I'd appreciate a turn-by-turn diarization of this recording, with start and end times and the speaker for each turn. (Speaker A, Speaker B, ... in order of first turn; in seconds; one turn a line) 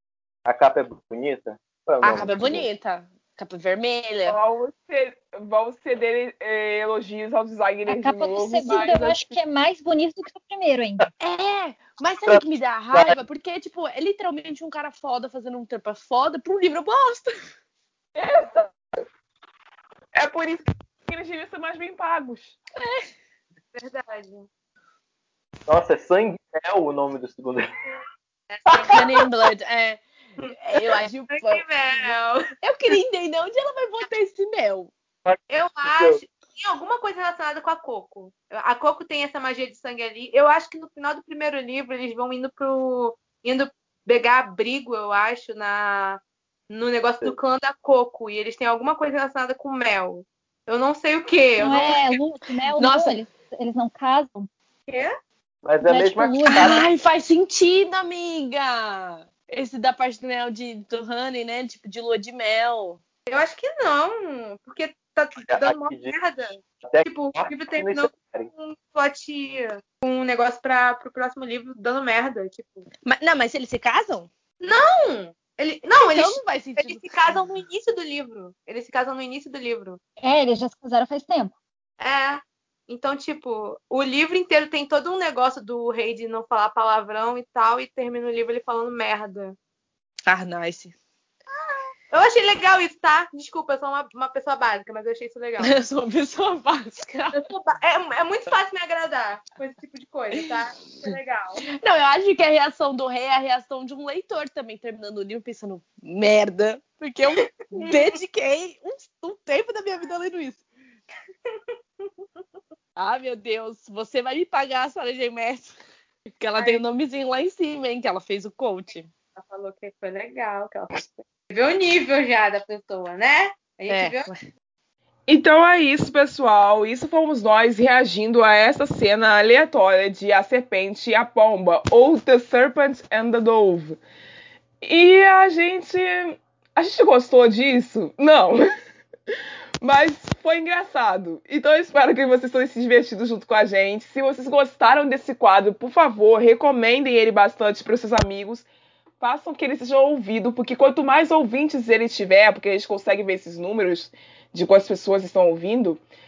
Speaker A: 0.4-2.7
Speaker B: 2.0-4.4
Speaker C: 4.2-9.3
Speaker D: 7.9-11.1
Speaker B: 11.2-17.3
Speaker A: 12.2-13.2
Speaker C: 18.1-18.7
Speaker C: 20.1-22.6
Speaker B: 22.8-23.1
Speaker E: 23.7-24.5
Speaker A: 25.7-27.7
Speaker E: 28.5-29.2
Speaker A: 28.7-29.0
Speaker B: 28.9-34.9
Speaker E: 30.4-32.4
Speaker A: 35.2-36.2
Speaker E: 35.5-52.1
Speaker D: 51.6-54.5
Speaker B: 52.8-53.2
Speaker A: 55.6-56.9
Speaker D: 55.8-56.7
Speaker B: 56.5-63.0
Speaker E: 63.3-72.8
Speaker A: 65.4-68.5
Speaker B: 73.0-74.3
Speaker E: 74.6-80.0
Speaker B: 76.0-77.3
Speaker D: 80.2-81.5
Speaker E: 82.0-89.5
Speaker B: 90.2-90.9
Speaker E: 91.5-95.8
Speaker B: 95.6-97.4
Speaker E: 97.3-101.6
Speaker B: 101.8-110.6
Speaker E: 111.5-112.1
Speaker B: 113.0-115.7
Speaker B: 116.4-119.1
Speaker E: 116.6-116.8
Speaker E: 119.3-124.3
Speaker B: 123.9-124.4
Speaker C: 125.3-134.0
Speaker C: 134.8-138.6
Speaker C: 139.8-148.7
Speaker C: 149.2-156.0